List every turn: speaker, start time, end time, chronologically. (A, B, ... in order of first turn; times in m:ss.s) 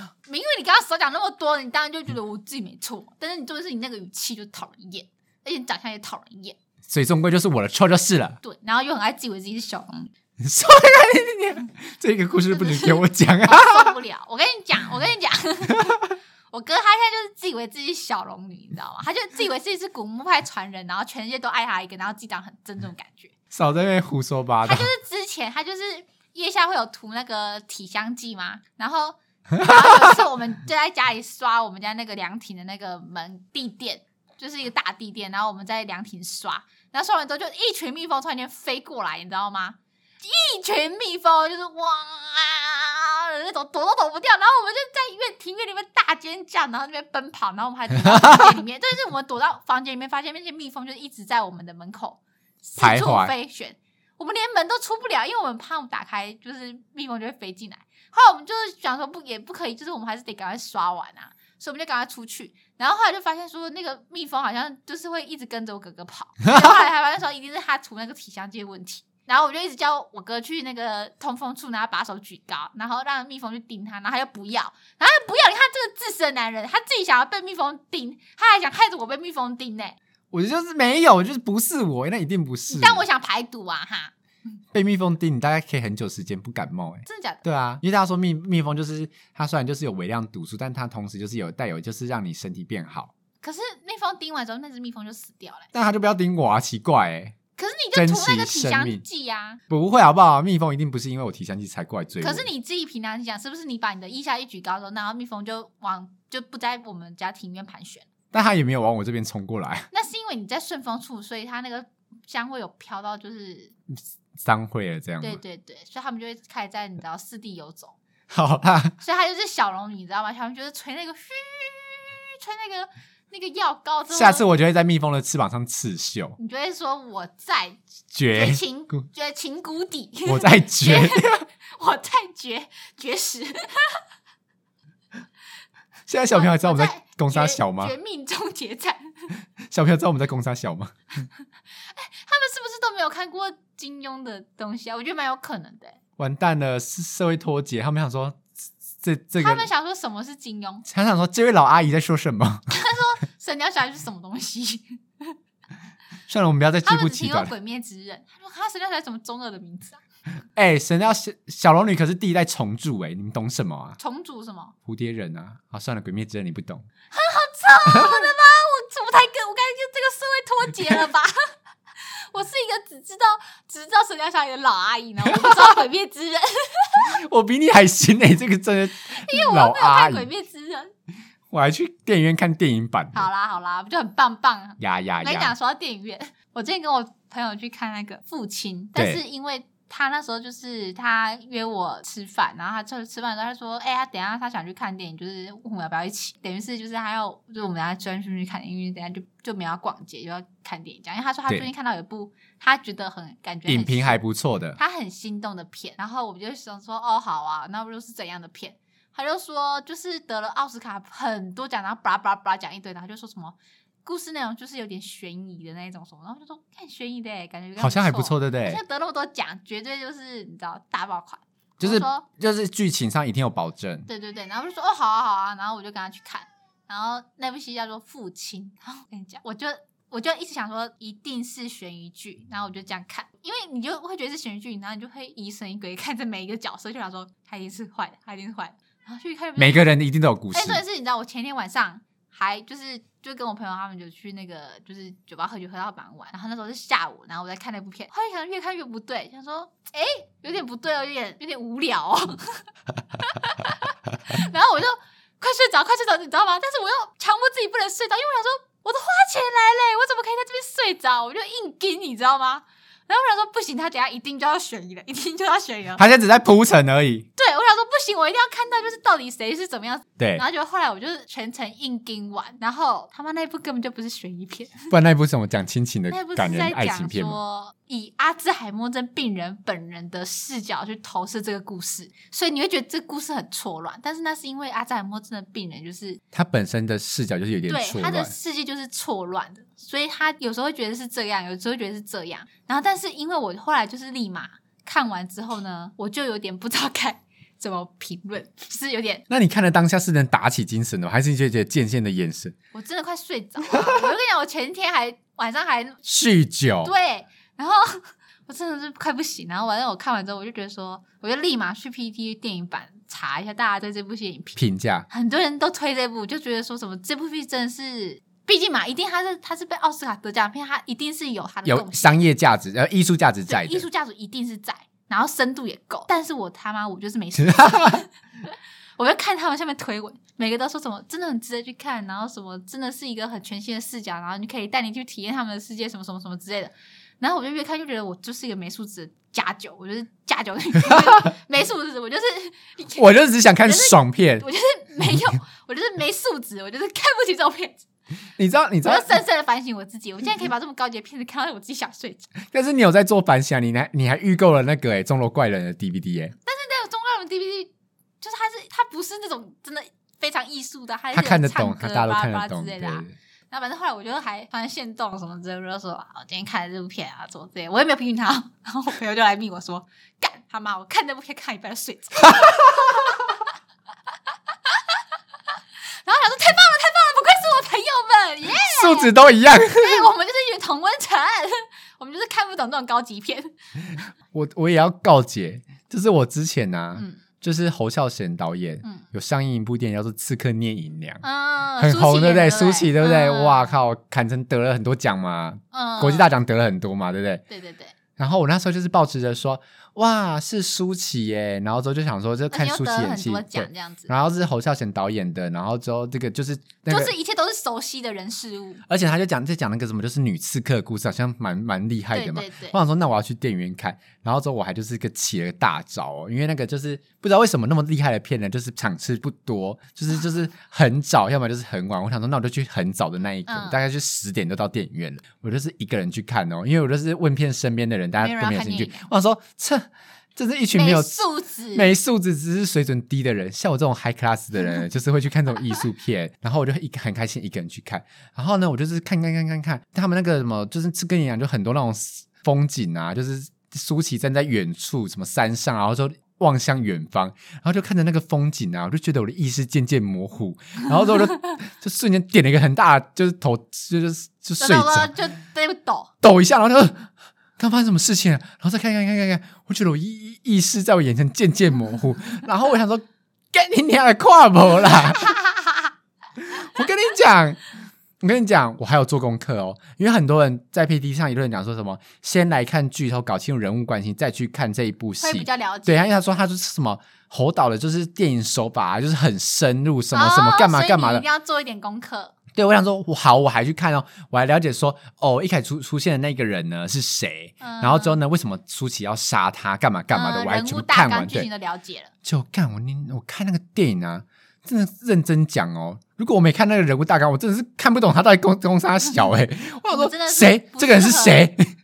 0:00.2-0:06.6 A
0:06.9-0:08.4 B
0:08.4-0:10.1 A
0:10.4-0:14.0 B
0:12.6-0:23.3 A
0:23.5-0:24.9 B
0:24.6-1:20.0 A
0:29.6-0:30.1 B
0:48.1-0:48.5 B
0:52.8-0:53.3 B
1:20.3-1:23.0 B
1:22.7-1:24.1 A
1:24.7-1:33.1 B
1:27.1-1:27.4 A
1:33.4-1:35.7 A
1:35.7-1:37.4 B
1:37.6-1:39.6 A
1:37.9-1:39.0 B
1:39.7-1:42.5 B
1:42.2-1:48.1 A
1:48.3-1:49.9 B
1:49.9-1:53.8 A
1:54.4-1:55.4 B
1:55.2-1:58.0 A
1:58.3-1:59.0 B
1:59.0-2:04.5 A
2:04.1-2:06.4 B
2:06.4-2:07.8 A
2:08.1-2:08.6 B
2:08.3-2:14.0 A
2:10.3-2:11.4 B
2:16.1-2:17.9 B
2:16.3-2:19.3 A
2:19.7-2:20.9 B
2:21.8-2:26.0 A
2:26.2-2:29.7 B
2:29.4-2:30.8 A
2:30.8-2:32.7 B
2:32.7-2:35.3 A
2:36.3-2:37.5 B
2:36.8-2:40.0 A
2:40.6-2:44.0 B
2:44.0-2:44.7 A
2:44.9-2:46.8 B
2:47.1-2:51.4 A
2:47.9-2:48.2 B
2:52.0-2:57.1 A
2:55.3-2:55.5 B
2:57.1-3:00.3 B
2:59.1-3:00.9 A
3:01.5-3:03.3 B
3:03.1-3:24.2 A
3:04.8-3:05.6 B
3:09.0-3:09.2 B
3:23.7-3:24.8 B
3:24.8-3:42.3 A
3:37.8-3:38.8 B
3:41.8-3:44.1 B
3:44.1-3:59.9 A
3:59.6-4:00.8 B
4:00.5-4:26.0 A
4:26.0-4:27.3 B
4:27.4-4:34.9 A
4:30.2-4:30.4 B
4:34.9-4:37.4 B
4:36.1-4:46.2 A
4:46.3-4:48.3 B
4:47.7-4:59.2 A
4:59.3-5:02.6 B
5:02.7-5:06.0 A
5:06.0-5:06.9 B
5:06.8-5:14.6 A
5:14.6-5:15.1 B
5:15.1-5:22.2 A
5:21.6-5:23.9 B
5:23.5-5:47.8 A
5:27.4-5:28.0 B
5:43.0-5:44.5 B
5:48.4-5:49.2 B
5:48.8-5:52.3 A
5:52.5-5:56.4 B
5:56.4-6:13.4 A
6:01.1-6:03.1 B
6:16.0-6:23.5 A
6:18.5-6:20.1 B
6:24.3-6:31.2 B
6:27.0-6:27.2 A
6:31.2-6:33.8 A
6:31.8-6:37.4 B
6:35.7-6:36.3 A
6:37.5-6:38.0 A
6:38.2-6:47.1 B
6:42.5-6:44.1 A
6:46.9-6:48.8 A
6:48.9-7:35.1 B
6:52.1-6:52.8 A
7:03.5-7:03.8 A
7:08.2-7:09.1 A
7:10.8-7:11.9 A
7:34.6-7:36.1 A
7:36.2-7:45.4 B
7:45.2-7:45.8 A
7:46.4-7:47.7 B
7:48.2-8:01.2 B
7:55.2-7:56.2 A
8:00.1-8:02.4 A
8:02.5-8:11.5 B
8:07.6-8:08.2 A
8:10.1-8:12.1 A
8:12.2-8:21.7 B
8:19.9-8:21.5 A